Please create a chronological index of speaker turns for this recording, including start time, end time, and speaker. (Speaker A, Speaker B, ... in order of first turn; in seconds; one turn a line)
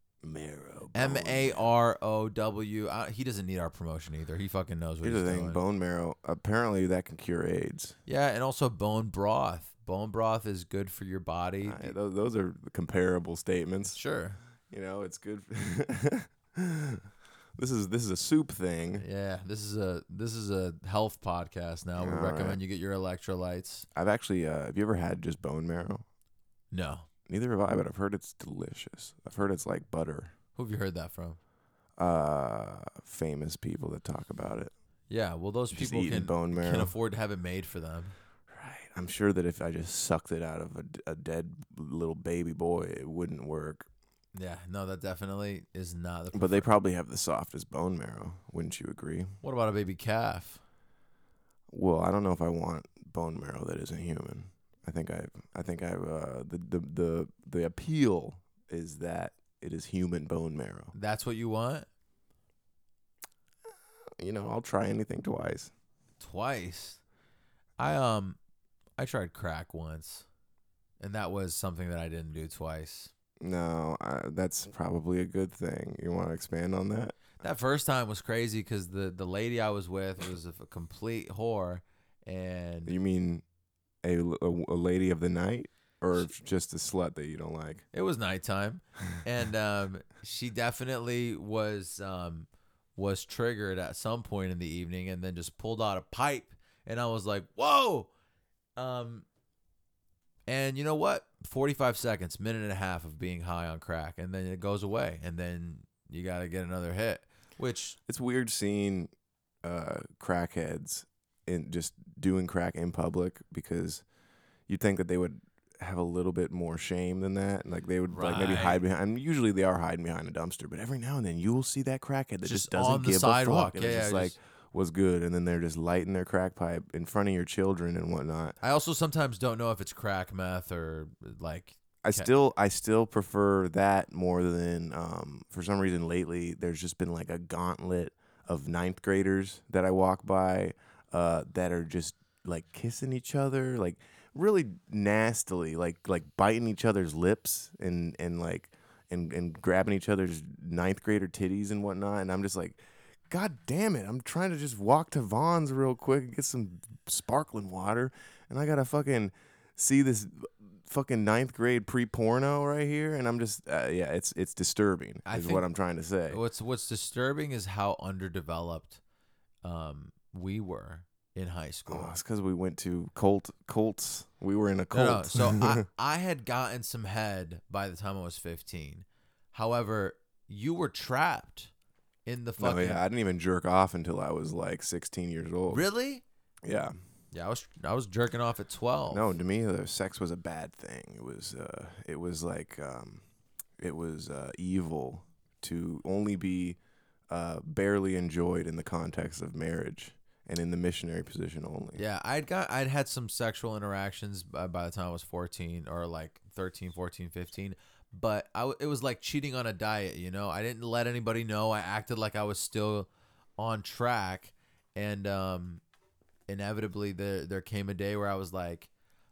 Speaker A: 0.2-1.7
Speaker B: 0.9-5.6
Speaker A: 5.0-8.0
Speaker B: 8.1-11.9
Speaker A: 11.6-14.0
Speaker B: 13.9-14.4
Speaker A: 14.7-19.0
Speaker B: 19.0-23.9
Speaker A: 22.0-22.6
Speaker A: 23.9-26.1
Speaker B: 26.7-27.1
Speaker A: 27.3-30.3
Speaker B: 30.6-31.4
Speaker A: 32.0-34.7
Speaker B: 35.1-38.1
Speaker A: 35.7-36.9
Speaker A: 38.5-43.9
Speaker B: 44.3-46.7
Speaker A: 46.3-49.3
Speaker B: 49.4-50.6
Speaker A: 51.7-60.9
Speaker B: 60.9-61.9
Speaker A: 64.2-65.7
Speaker B: 66.2-67.0
Speaker B: 67.8-68.4
Speaker B: 69.0-70.2
Speaker B: 71.0-73.1
Speaker A: 73.4-77.4
Speaker B: 77.4-82.9
Speaker A: 82.8-83.4
Speaker A: 84.0-87.8
Speaker B: 87.9-98.1
Speaker B: 98.8-99.2
Speaker B: 100.5-108.0
Speaker A: 108.1-109.1
Speaker A: 109.6-114.0
Speaker A: 114.7-128.6
Speaker B: 118.1-118.8
Speaker B: 122.4-124.3
Speaker B: 128.6-132.3
Speaker A: 132.0-166.4
Speaker B: 165.2-165.6
Speaker B: 166.3-169.0
Speaker B: 169.6-172.1
Speaker A: 171.9-175.8
Speaker B: 174.9-181.7
Speaker B: 182.2-183.0
Speaker A: 182.6-185.8
Speaker B: 185.7-186.2
Speaker A: 186.6-187.0
Speaker B: 187.3-189.3
Speaker A: 189.1-193.2
Speaker A: 193.8-196.8
Speaker A: 197.3-202.0
Speaker B: 201.9-215.8
Speaker B: 216.5-218.9